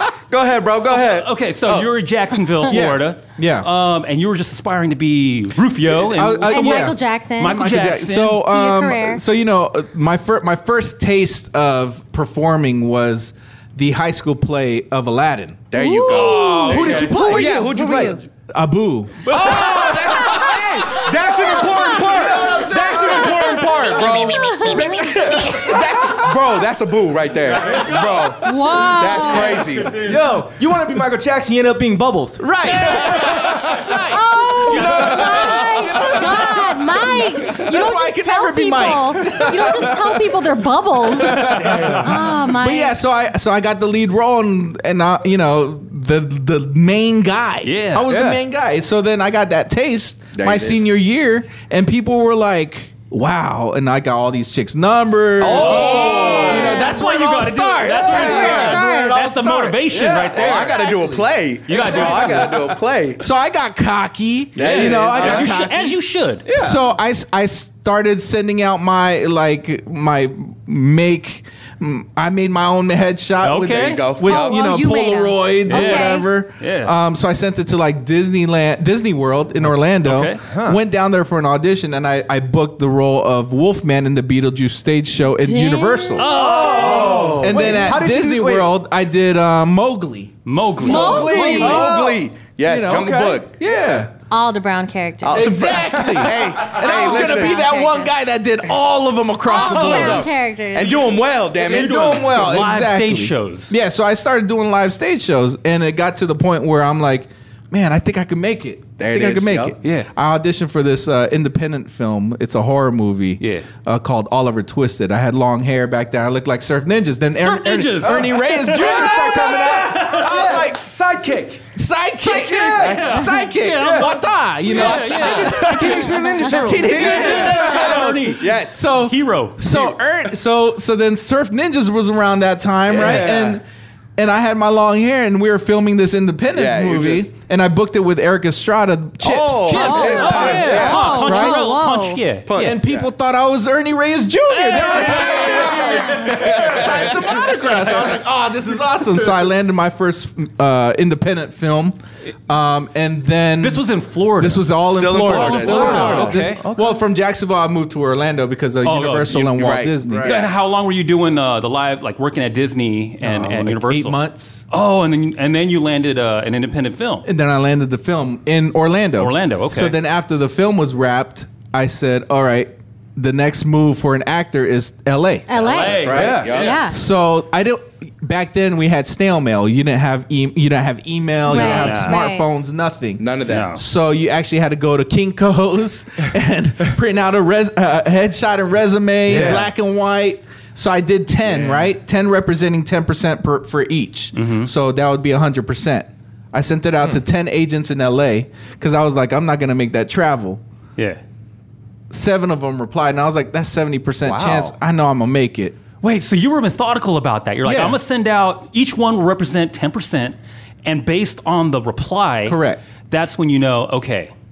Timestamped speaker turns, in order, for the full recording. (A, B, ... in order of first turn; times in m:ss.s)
0:00.3-0:01.9 A
0:00.9-0:08.4 B
0:02.7-0:03.7 C
0:06.0-0:15.6 C
0:06.4-0:07.6 D
0:08.4-0:09.2 D
0:15.7-0:18.0 A
0:15.7-0:18.2 D
0:16.0-0:17.5 B
0:16.7-0:18.2 E
0:16.9-0:17.4 C
0:18.5-0:19.4 C
0:19.2-0:20.3 B
0:19.3-0:30.0 A
0:20.1-0:20.5 D
0:21.7-0:22.0 D
0:21.9-0:23.2 C
0:22.0-0:24.5 E
0:23.1-0:25.7 D
0:24.7-0:25.6 C
0:27.5-0:30.2 B
0:28.4-0:29.6 D
0:30.0-0:32.5 E
0:32.4-0:40.4 C
0:32.6-0:34.0 B
0:34.1-0:43.0 D
0:34.6-0:36.1 B
0:41.0-0:58.9 C
0:41.2-0:42.1 B
0:47.6-0:48.1 B
0:48.1-0:48.4 E
0:50.3-0:50.8 A
0:55.4-0:56.8 A
0:55.5-1:00.8 B
0:55.7-0:57.0 D
0:57.8-0:59.3 D
0:58.4-0:58.7 A
0:59.4-1:02.6 C
0:59.5-1:00.4 E
1:00.3-1:03.2 A
1:01.7-1:02.7 B
1:03.2-1:05.8 C
1:04.6-1:05.5 A
1:04.6-1:06.4 B
1:06.4-1:06.8 E
1:06.6-1:34.1 C
1:13.4-1:14.0 B
1:13.8-1:14.7 A
1:14.2-1:16.2 D
1:15.6-1:16.9 B
1:20.0-1:20.4 B
1:20.4-1:20.8 E
1:25.4-1:26.2 D
1:26.2-1:28.0 B
1:26.4-1:28.7 E
1:26.6-1:27.7 A
1:30.4-1:31.8 B
1:30.8-1:32.0 D
1:30.8-1:33.5 A
1:30.8-1:32.1 E
1:34.3-1:35.6 D
1:35.2-1:37.6 A
1:35.3-1:40.3 C
1:36.7-1:38.1 D
1:39.4-1:41.2 D
1:39.5-1:42.4 A
1:41.5-1:43.7 B
1:41.6-2:00.9 C
1:49.0-1:49.8 A
1:49.8-1:50.1 B
1:53.4-1:53.7 B
1:57.3-2:00.4 B
1:58.7-2:01.7 E
2:01.7-2:13.6 C
2:02.2-2:09.6 B
2:02.6-2:03.0 E
2:02.8-2:03.1 A
2:04.8-2:05.6 A
2:05.1-2:07.9 E
2:06.9-2:08.8 A
2:12.9-2:13.5 A
2:13.0-2:13.5 E
2:14.2-2:21.6 C
2:16.5-2:17.3 A
2:19.2-2:21.1 A
2:19.7-2:22.8 B
2:19.7-2:22.2 D
2:22.5-2:23.1 A
2:22.6-2:33.8 C
2:24.5-2:27.2 B
2:25.1-2:27.2 A
2:25.4-2:26.1 D
2:33.6-2:36.6 B
2:34.4-2:40.3 C
2:34.9-2:36.4 A
2:35.4-2:37.0 E
2:38.8-2:44.2 B
2:39.5-2:40.5 A
2:43.2-2:44.6 C
2:44.7-2:47.2 B
2:47.2-2:55.5 C
2:49.2-2:50.0 B
2:55.5-2:57.0 D
2:55.6-2:56.7 B
2:55.6-2:56.8 A
2:56.1-2:56.5 E
2:56.2-3:20.6 C
3:01.4-3:02.4 D
3:01.5-3:02.2 B
3:03.2-3:03.8 A
3:03.5-3:03.8 B
3:09.3-3:09.7 E
3:11.6-3:11.8 E
3:14.3-3:14.7 B
3:22.1-3:25.8 C
3:24.2-3:24.7 E
3:26.0-3:32.6 B
3:27.6-3:28.0 C
3:32.4-3:32.8 C
3:33.1-3:34.3 B